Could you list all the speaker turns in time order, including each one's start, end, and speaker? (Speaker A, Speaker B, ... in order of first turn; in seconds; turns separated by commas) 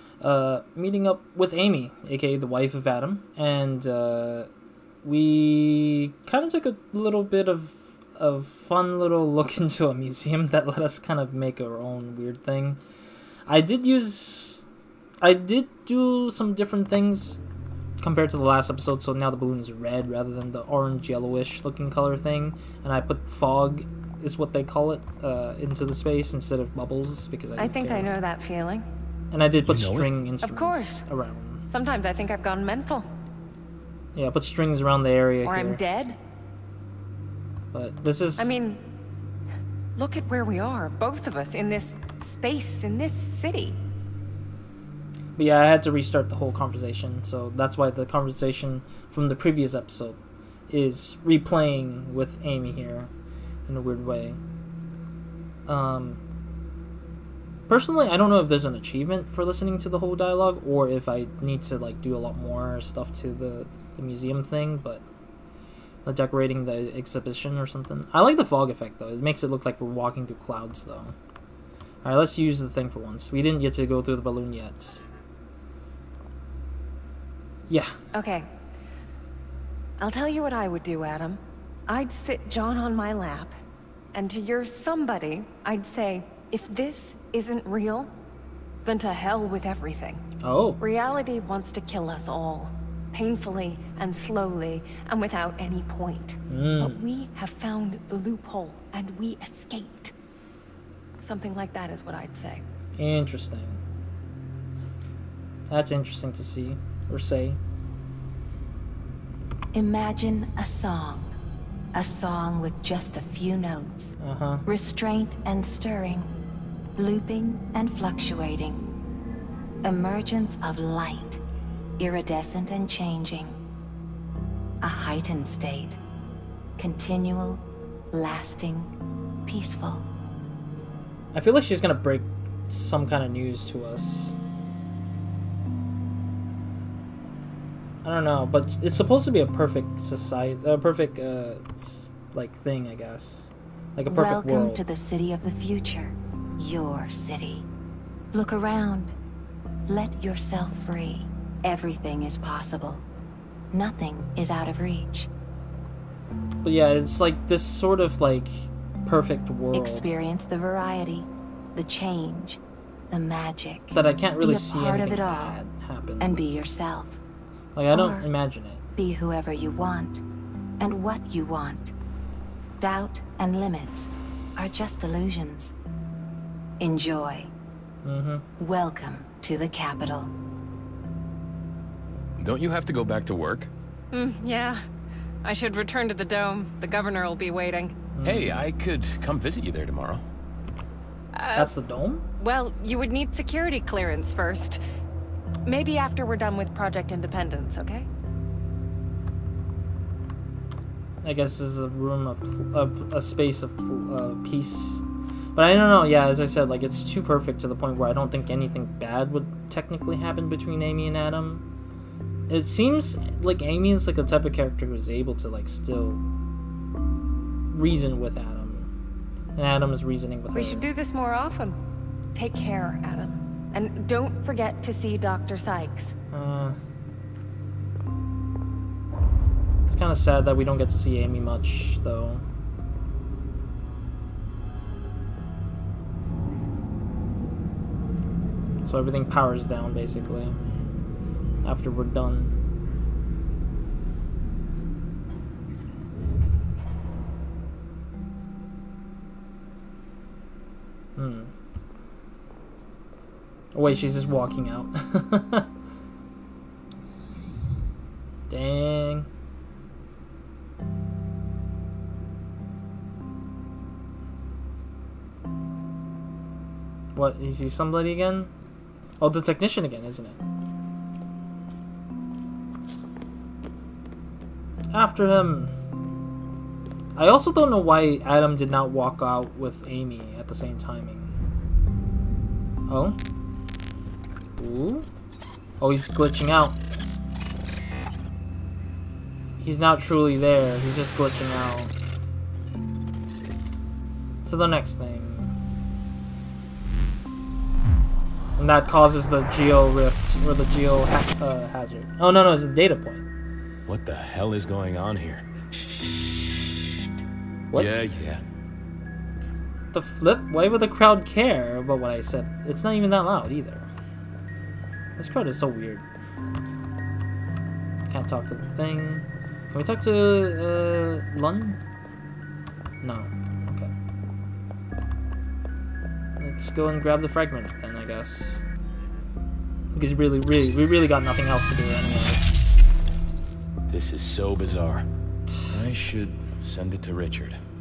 Speaker A: 0.2-4.5, Speaker A: 5.0-12.8, Speaker A: 13.5-14.7, Speaker A: 15.2-17.4, Speaker A: 18.0-28.1, Speaker B: 27.6-28.9, Speaker A: 29.3-31.6, Speaker C: 29.7-30.1, Speaker B: 30.4-31.1, Speaker B: 31.7-33.1, Speaker A: 34.1-35.8, Speaker B: 35.5-36.2, Speaker A: 37.7-38.5, Speaker B: 38.4-38.8, Speaker B: 40.0-43.8, Speaker A: 45.4-53.1, Speaker A: 53.7-54.4, Speaker A: 55.7-56.2, Speaker A: 57.7-65.0, Speaker A: 66.0-71.2, Speaker A: 72.0-75.0, Speaker A: 77.7-77.9, Speaker B: 78.1-78.5, Speaker B: 80.0-83.5, Speaker B: 84.1-88.1, Speaker B: 88.8-90.2, Speaker A: 90.4-90.8, Speaker B: 90.8-100.1, Speaker A: 96.5-97.0, Speaker B: 101.2-102.6, Speaker A: 103.0-103.8, Speaker A: 105.7-107.6, Speaker D: 109.7-111.3, Speaker D: 112.0-116.3, Speaker A: 114.2-114.7, Speaker D: 117.0-118.8, Speaker D: 119.8-121.4, Speaker D: 122.0-123.6, Speaker D: 124.8-126.0, Speaker D: 126.8-130.1, Speaker A: 131.3-134.4, Speaker A: 138.0-144.8, Speaker D: 144.1-147.7, Speaker D: 148.3-149.1, Speaker D: 149.9-153.1, Speaker D: 153.7-155.3, Speaker A: 156.6-160.1, Speaker D: 159.7-165.6, Speaker A: 163.9-166.4, Speaker D: 166.2-167.2, Speaker A: 167.8-168.8, Speaker D: 167.9-168.3, Speaker D: 169.0-170.2, Speaker D: 170.8-171.9, Speaker D: 172.8-175.7, Speaker D: 176.8-177.5, Speaker A: 178.0-178.4, Speaker D: 178.6-180.3, Speaker C: 182.4-183.7, Speaker B: 184.1-184.8, Speaker B: 185.4-188.0, Speaker A: 188.2-188.7, Speaker C: 188.2-190.2, Speaker B: 191.3-191.7, Speaker A: 191.5-192.2, Speaker B: 192.4-194.8, Speaker B: 195.7-198.1, Speaker A: 201.2-205.0, Speaker A: 205.6-211.7, Speaker A: 212.5-216.2, Speaker A: 217.7-218.9, Speaker A: 219.6-220.9, Speaker B: 220.5-221.8, Speaker B: 222.3-226.1, Speaker A: 226.3-226.8, Speaker A: 229.9-232.4, Speaker A: 238.8-240.6, Speaker A: 241.6-242.5, Speaker A: 251.2-251.5, Speaker A: 253.7-255.7, Speaker A: 258.5-259.3, Speaker A: 267.1-268.5, Speaker A: 269.2-270.4, Speaker A: 274.9-275.7, Speaker A: 277.2-281.4, Speaker A: 282.9-283.2, Speaker A: 284.6-285.1, Speaker A: 285.8-286.8, Speaker A: 289.6-291.9, Speaker A: 294.4-295.5, Speaker A: 298.6-303.3, Speaker C: 303.9-305.5, Speaker C: 307.7-308.4, Speaker A: 309.9-313.9, Speaker A: 315.2-316.1, Speaker A: 318.1-321.8, Speaker A: 323.0-323.9, Speaker A: 326.4-328.6, Speaker A: 329.9-332.5, Speaker C: 333.9-335.1, Speaker A: 335.5-335.9, Speaker C: 335.7-337.6